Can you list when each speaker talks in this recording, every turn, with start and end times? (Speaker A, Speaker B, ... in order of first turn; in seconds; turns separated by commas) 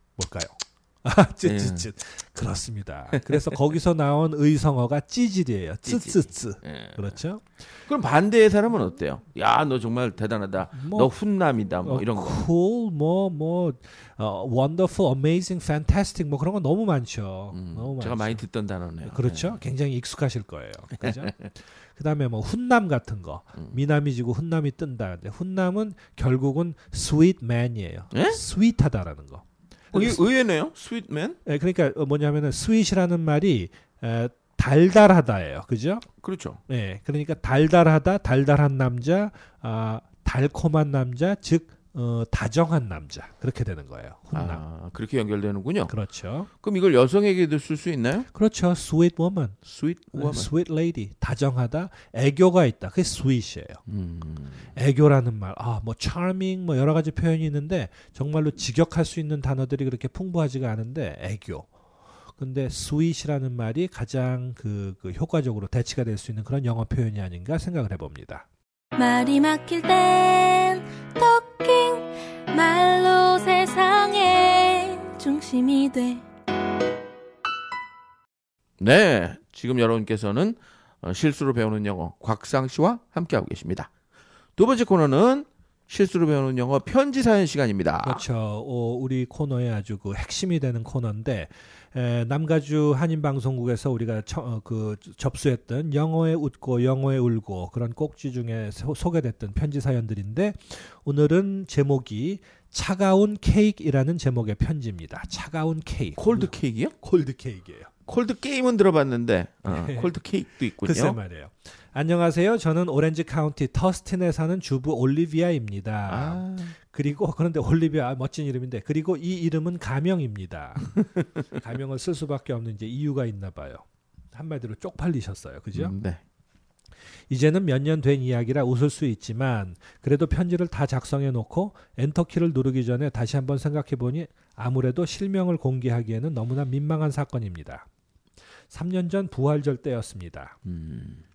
Speaker A: 0.2-7.5, Speaker B: 1.4-1.9, Speaker B: 5.8-7.2, Speaker B: 7.9-12.4, Speaker A: 10.7-11.1, Speaker A: 11.8-18.4, Speaker B: 17.5-19.6, Speaker A: 19.0-30.2, Speaker B: 21.0-21.5, Speaker B: 28.1-28.4, Speaker B: 29.9-31.4, Speaker A: 31.4-36.0, Speaker B: 36.2-36.6, Speaker A: 36.7-44.6, Speaker B: 44.3-45.9, Speaker A: 45.9-46.5, Speaker B: 46.5-48.3, Speaker A: 48.3-49.6, Speaker B: 49.6-50.5, Speaker A: 50.1-53.8, Speaker B: 53.9-54.7, Speaker A: 54.7-61.7, Speaker A: 62.4-68.5, Speaker C: 69.0-76.2, Speaker B: 78.8-83.9, Speaker B: 84.6-88.2, Speaker A: 88.0-107.9, Speaker B: 106.2-106.9, Speaker B: 108.1-111.2, Speaker A: 109.6-110.1, Speaker A: 110.8-120.9, Speaker B: 116.1-116.7, Speaker A: 121.5-125.9, Speaker B: 125.7-126.2, Speaker A: 127.3-137.8, Speaker A: 138.7-140.6, Speaker B: 140.6-141.2